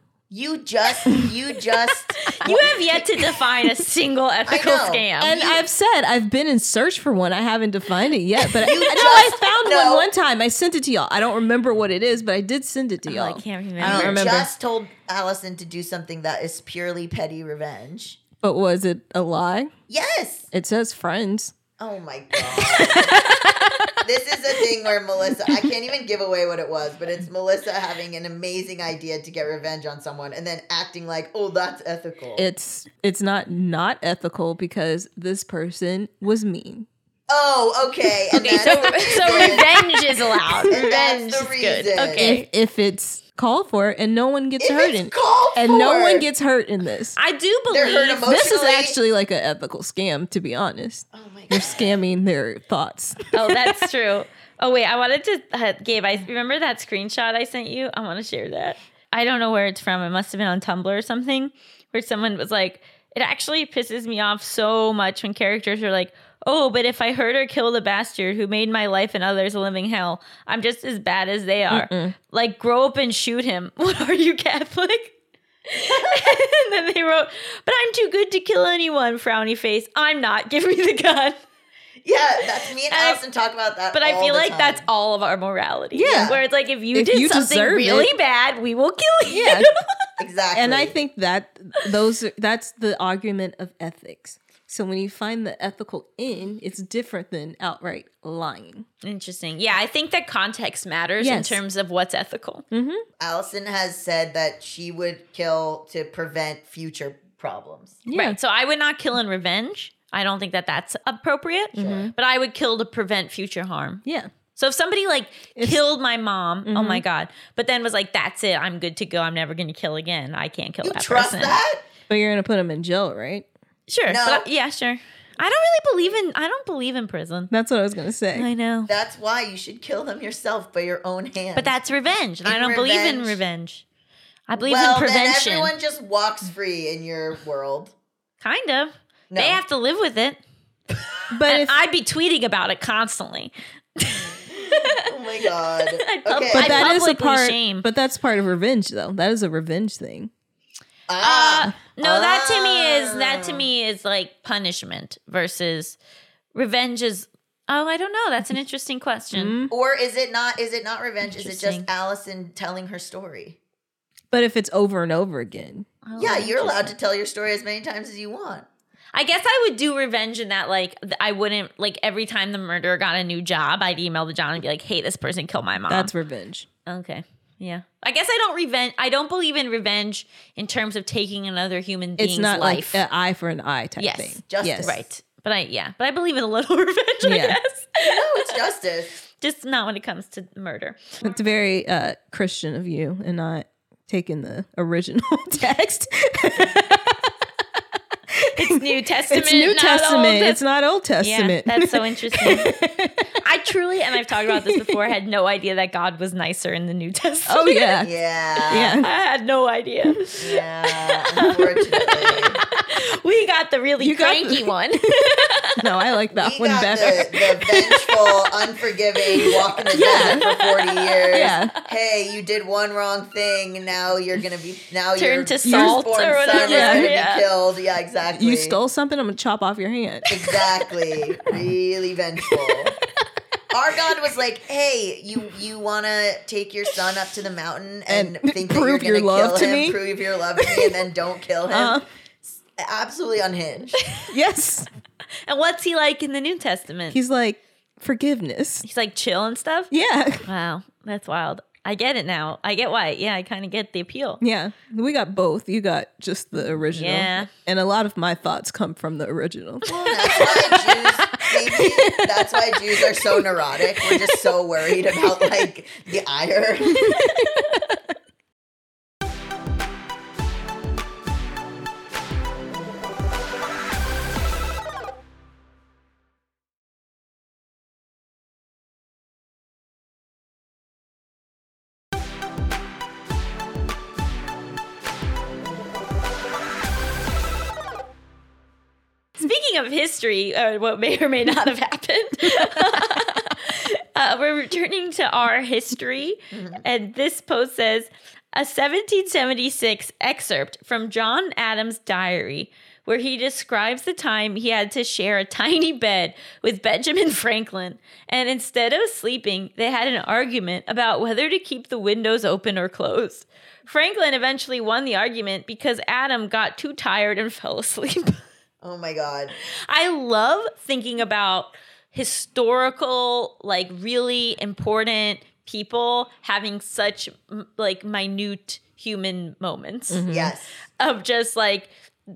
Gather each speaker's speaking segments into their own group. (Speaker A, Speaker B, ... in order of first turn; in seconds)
Speaker A: 0.3-3.3, 4.5-5.6, 8.6-10.1, 13.8-18.2, 19.9-20.5, 21.8-23.2, 24.0-32.5, 37.3-39.8, 40.7-42.3, 44.6-46.3, 47.7-49.0, 51.1-52.0, 75.9-76.3, 82.0-84.9, 86.0-86.4, 90.2-91.0, 103.2-108.0, 111.8-112.0, 120.8-121.8, 124.1-124.5, 128.9-131.7, 132.4-133.4, 134.6-137.9, 139.3-139.6, 144.5-146.9, 151.1-153.7, 159.7-163.6, 166.2-168.7, 184.5-185.0, 188.0-189.1, 208.0-209.0, 210.4-212.6, 216.3-228.8, 230.3-233.0, 233.7-244.0, 259.9-267.2, 296.5-296.8, 318.8-319.5, 330.3-330.7
Speaker B: 2.2-5.5, 8.6-9.2, 13.1-14.3, 22.7-23.9, 38.3-42.5, 47.2-48.4, 53.3-75.2, 75.7-81.4, 82.9-83.2, 83.9-89.7, 99.0-102.7, 108.1-114.0, 114.6-121.6, 123.9-127.5, 128.3-128.9, 131.6-133.8, 134.5-135.7, 138.4-140.4, 141.5-145.1, 145.8-147.9, 151.2-156.0, 156.5-159.6, 161.3-161.9, 166.1-166.9, 169.1-176.1, 176.9-183.0, 184.0-188.5, 189.3-191.2, 198.6-200.6, 201.2-202.7, 203.4-208.0, 208.7-215.7, 217.8-218.3, 219.3-221.3, 225.2-227.5, 245.5-247.2, 248.8-249.9, 250.5-254.4, 256.6-257.5, 289.4-318.4, 319.6-330.2, 331.0-331.9
Speaker C: 5.2-14.5, 18.4-19.7, 20.5-21.6, 32.4-36.9, 42.2-47.2, 48.2-53.7, 71.7-72.2, 85.9-86.3, 86.9-88.1, 89.3-89.7, 90.5-98.9, 101.2-101.6, 102.7-103.0, 108.1-108.4, 111.8-112.1, 115.6-115.8, 116.7-117.0, 122.1-123.5, 127.5-128.5, 141.3-141.8, 146.5-150.3, 159.3-159.7, 164.3-165.9, 175.9-176.7, 182.2-184.9, 187.2-187.6, 191.2-197.2, 198.4-203.3, 204.5-205.0, 207.5-208.1, 208.7-209.1, 214.0-217.4, 219.9-220.5, 221.3-221.7, 225.7-227.1, 228.3-230.4, 238.1-240.0, 240.6-241.0, 241.7-242.1, 244.3-244.9, 247.1-248.8, 249.9-250.5, 254.4-263.5, 264.1-264.4, 266.9-267.9, 330.1-330.6